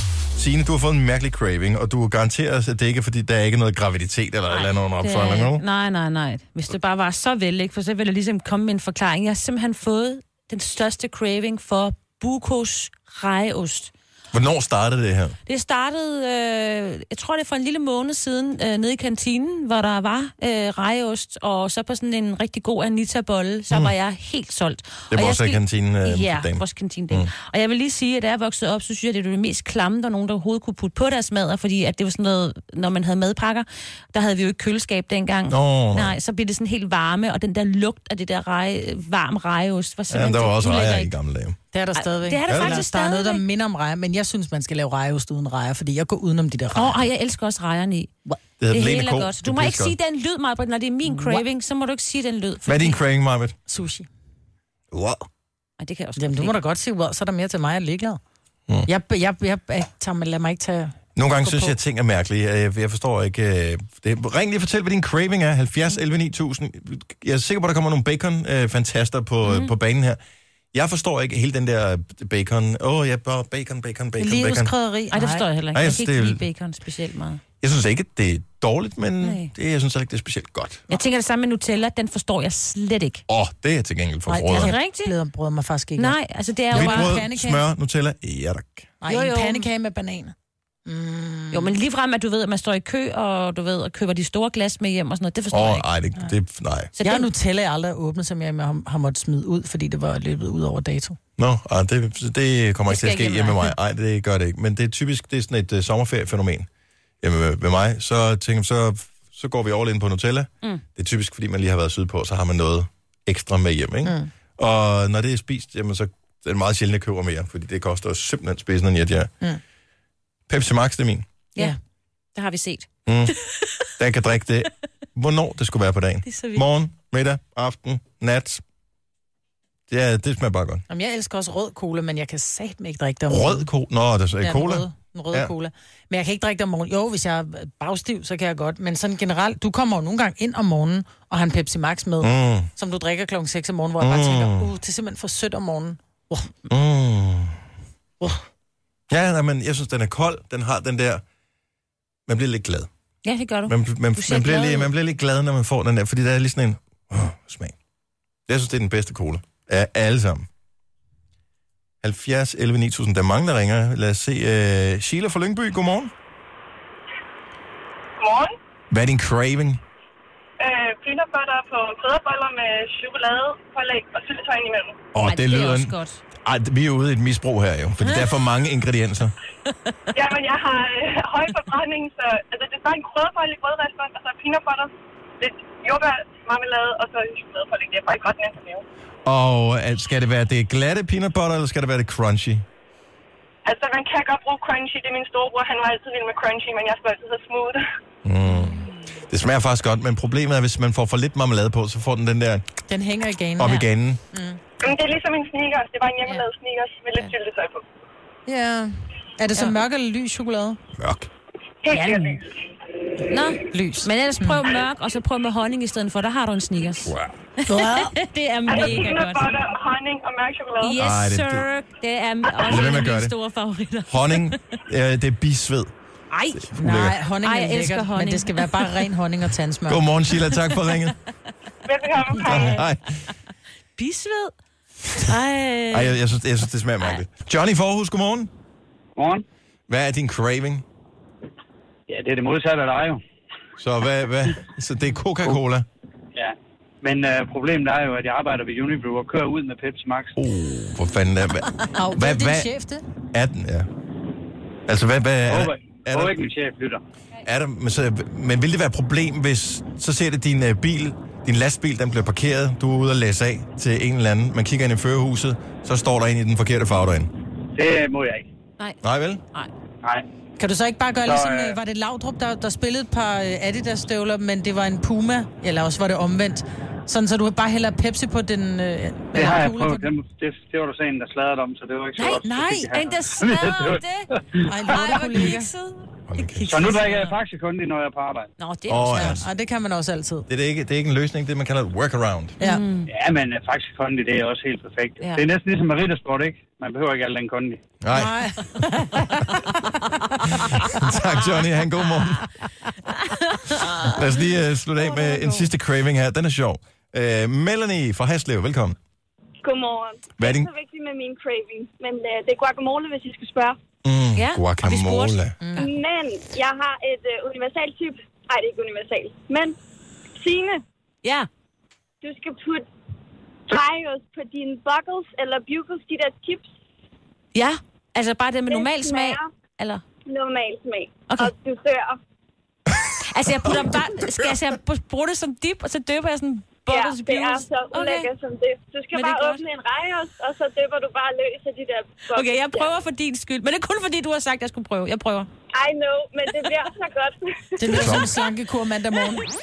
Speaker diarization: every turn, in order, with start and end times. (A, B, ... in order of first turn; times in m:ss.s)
0:00.3-0:05.6 A
0:04.5-0:13.9 B
0:14.3-0:15.4 A
0:15.4-0:41.1 B
0:25.1-0:27.3 A
0:35.5-0:36.2 A
0:40.1-0:41.6 A
0:41.7-0:47.0 C
0:42.0-0:43.4 B
0:42.5-0:42.8 A
0:46.7-0:48.1 B
0:48.6-0:49.9 A
0:48.7-0:53.0 B
0:51.0-0:51.4 C
0:52.6-0:53.5 A
0:53.7-0:54.1 C
0:54.9-0:55.2 A
0:55.8-0:56.5 B
0:56.2-0:58.2 C
0:58.8-1:01.7 C
1:01.2-1:10.2 A
1:09.4-1:09.7 B
1:10.7-1:14.7 A
1:14.2-1:15.4 C
1:15.1-1:17.4 B
1:15.7-1:16.4 A
1:17.6-1:20.8 A
1:19.2-1:19.5 B
1:20.9-1:23.2 B
1:23.3-1:24.7 A
1:24.3-1:26.2 C
1:24.5-1:25.1 B
1:26.0-1:27.3 B
1:26.7-1:27.6 C
1:26.7-1:28.9 A
1:29.0-1:31.7 C
1:29.0-1:29.7 B
1:31.5-1:35.9 B
1:35.5-1:36.9 A
1:36.9-1:37.3 B
1:37.0-1:41.2 C
1:41.4-1:46.7 A
1:42.9-1:43.7 B
1:47.2-1:59.3 A
2:00.5-2:01.2 A
2:02.3-2:03.5 B
2:03.0-2:03.3 A
2:04.0-2:08.6 A
2:06.2-2:06.6 B
2:09.9-2:10.8 A
2:10.9-2:13.7 C
2:13.3-2:15.5 A
2:14.4-2:26.5 C
2:22.2-2:22.7 A
2:24.0-2:24.7 A
2:26.7-2:27.6 A
2:29.1-2:31.2 A
2:32.3-2:32.9 A
2:33.2-2:34.9 B
2:33.7-2:37.7 A
2:38.5-2:40.4 A
2:42.0-2:46.1 A
2:48.2-2:48.5 D
2:48.9-2:49.8 A
2:50.6-2:55.0 D
2:55.1-2:59.3 A
2:55.2-2:56.2 B
2:58.0-2:58.4 B
3:00.1-3:08.8 D
3:09.2-3:12.6 A
3:13.6-3:17.8 D
3:18.2-3:22.6 A
3:18.5-3:19.0 B
3:22.9-3:24.6 C
3:23.6-3:24.2 A
3:24.8-3:27.8 D
3:28.4-3:30.8 C
3:31.0-3:31.3 A
3:31.8-3:32.4 D
3:31.9-3:32.4 B
3:33.3-3:37.1 B
3:33.7-3:34.6 C
3:37.7-3:38.1 C
3:37.7-3:39.5 B
3:38.7-3:40.9 D
3:40.8-3:44.6 B
3:41.0-3:41.7 A
3:42.6-3:43.3 A
3:44.1-3:45.9 A
3:46.3-3:46.8 B
3:46.6-3:47.2 A
3:46.7-3:50.1 C
3:47.4-3:49.1 B
3:49.9-3:51.1 A
3:50.7-3:51.1 B
3:51.8-3:52.8 D
3:52.3-3:52.8 B
3:52.4-3:53.2 A
3:54.0-3:54.5 B
3:55.1-3:56.2 B
3:55.9-3:58.5 A
3:59.2-3:59.4 E
3:59.9-4:00.8 A
4:02.1-4:03.2 E
4:03.8-4:05.8 A
4:06.3-4:10.4 E
4:10.4-4:12.7 A
4:11.9-4:13.0 C
4:13.3-4:13.9 A
4:14.9-4:16.4 A
4:15.4-4:17.0 E
4:17.4-4:27.3 A
4:27.7-4:28.5 E
4:29.0-4:29.4 A
4:30.6-4:40.1 C
4:31.2-4:31.8 E
4:39.3-4:45.0 E
4:42.2-4:44.3 B
4:42.4-4:42.9 C
4:44.6-4:45.7 C
4:44.9-4:47.4 B
4:46.3-4:47.0 A
4:46.6-4:48.5 E
4:48.6-4:49.4 B
4:48.9-4:49.5 A
4:49.2-4:50.5 C
4:50.5-4:52.6 A
4:52.6-4:53.1 B
4:53.1-4:57.8 E
4:58.0-4:58.4 A
4:58.1-4:59.6 C
5:00.5-5:02.5 A
5:03.5-5:04.0 B
5:03.9-5:09.0 A
5:05.0-5:05.5 C
5:09.6-5:13.8 F
5:10.4-5:10.7 A
5:14.0-5:15.6 A
5:14.3-5:15.9 B
5:15.6-5:15.9 C
5:15.8-5:19.8 F
5:20.4-5:20.8 F
5:22.2-5:22.9 F
5:23.7-5:26.7 F
5:27.5-5:30.0 B
5:28.7-5:29.5 F
5:30.2-5:32.2 F
5:33.3-5:38.3 B
5:36.9-5:42.9 F
5:39.1-5:39.6 B
5:42.3-5:45.5 B
5:45.7-5:48.2 F
5:47.8-5:49.4 C
5:47.8-5:48.3 B